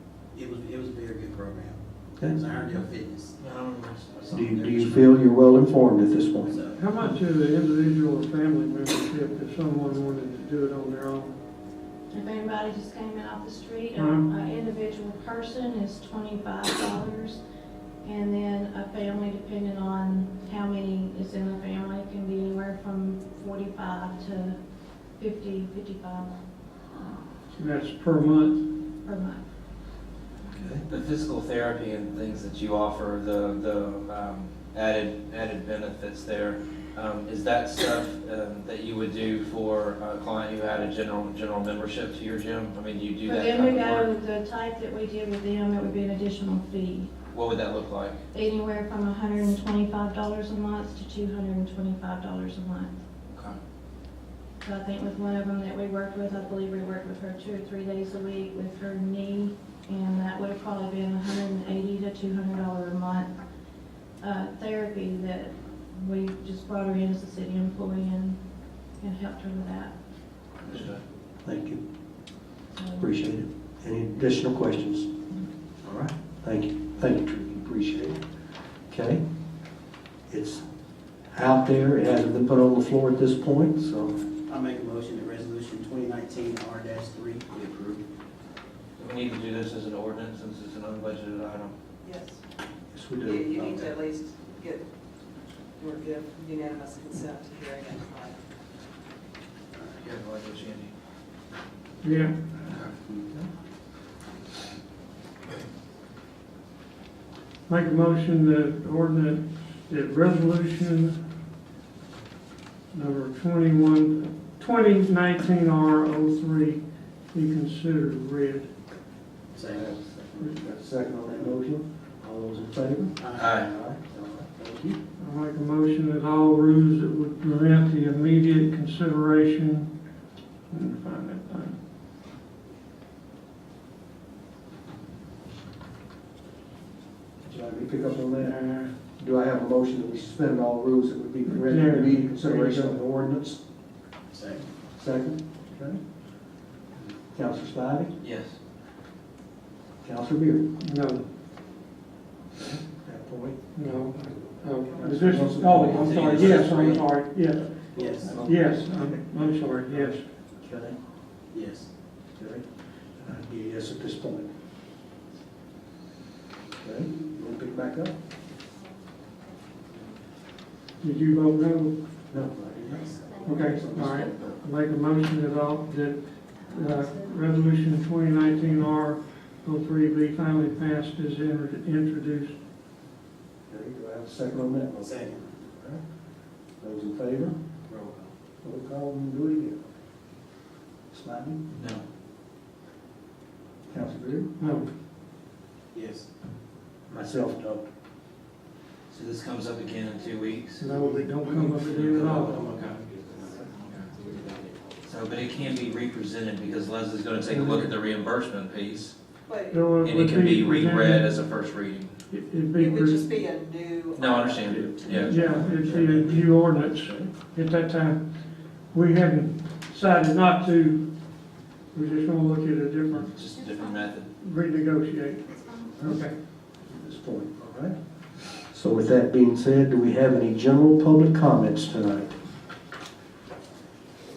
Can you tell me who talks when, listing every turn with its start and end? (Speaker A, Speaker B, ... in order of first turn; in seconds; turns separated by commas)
Speaker A: 0.3-3.4, Speaker B: 3.4-5.1, Speaker C: 4.3-6.5, Speaker A: 6.4-6.8, Speaker D: 6.8-11.3, Speaker E: 12.1-17.4, Speaker D: 13.9-14.2, Speaker E: 18.0-24.6, Speaker E: 25.2-26.4, Speaker D: 27.6-28.6, Speaker E: 29.0-29.4, Speaker B: 30.7-44.1, Speaker E: 43.2-47.1, Speaker B: 47.3-48.2, Speaker E: 48.3-52.9, Speaker B: 53.3-53.6, Speaker E: 54.6-63.3, Speaker E: 64.2-68.4, Speaker E: 69.0-69.9, Speaker B: 70.6-71.0, Speaker C: 71.4-71.8, Speaker E: 72.7-73.1, Speaker C: 73.0-75.1, Speaker C: 75.8-78.2, Speaker C: 78.9-79.2, Speaker C: 80.3-80.6, Speaker C: 81.3-84.2, Speaker A: 84.5-88.0, Speaker B: 89.0-91.7, Speaker F: 92.0-92.4, Speaker C: 92.9-93.9, Speaker F: 93.2-94.8, Speaker F: 95.8-98.4, Speaker B: 100.0-100.9, Speaker D: 102.0-102.3, Speaker D: 107.7-111.2, Speaker D: 112.9-118.7, Speaker A: 119.5-119.9, Speaker C: 119.7-125.0, Speaker A: 123.2-123.6, Speaker B: 123.4-123.7, Speaker D: 125.2-129.9, Speaker D: 130.7-131.7, Speaker C: 137.4-143.6, Speaker D: 141.4-143.0, Speaker A: 144.3-144.6, Speaker C: 145.0-146.0, Speaker C: 147.3-148.2, Speaker B: 148.2-148.6, Speaker C: 150.0-150.7, Speaker D: 150.8-151.2, Speaker C: 152.5-153.6, Speaker D: 153.7-160.2, Speaker C: 154.9-157.0, Speaker B: 155.8-157.0, Speaker A: 157.9-158.4, Speaker C: 157.9-159.2, Speaker C: 159.9-160.9, Speaker A: 161.5-161.9, Speaker C: 162.3-162.7, Speaker C: 163.2-164.5, Speaker C: 166.8-168.1, Speaker D: 171.0-172.0, Speaker C: 172.3-174.6, Speaker D: 173.4-182.6, Speaker C: 183.7-186.0, Speaker A: 185.0-185.5, Speaker C: 186.8-187.5, Speaker A: 187.9-188.3, Speaker C: 188.6-189.9, Speaker C: 191.1-191.6, Speaker B: 191.7-192.0, Speaker C: 193.9-194.5, Speaker D: 194.6-194.9, Speaker A: 195.9-196.3, Speaker C: 197.1-197.8, Speaker B: 199.1-200.9, Speaker D: 200.8-202.7, Speaker B: 201.5-203.0, Speaker B: 205.1-209.1, Speaker D: 207.5-207.9, Speaker F: 209.5-209.8, Speaker D: 209.7-211.3, Speaker B: 210.0-212.1, Speaker D: 212.3-213.3, Speaker F: 212.7-215.2, Speaker B: 214.1-215.8, Speaker A: 215.1-216.4, Speaker D: 215.2-218.2, Speaker D: 218.9-221.1, Speaker D: 221.9-223.3, Speaker B: 223.2-224.3, Speaker D: 224.4-226.3, Speaker C: 226.8-232.3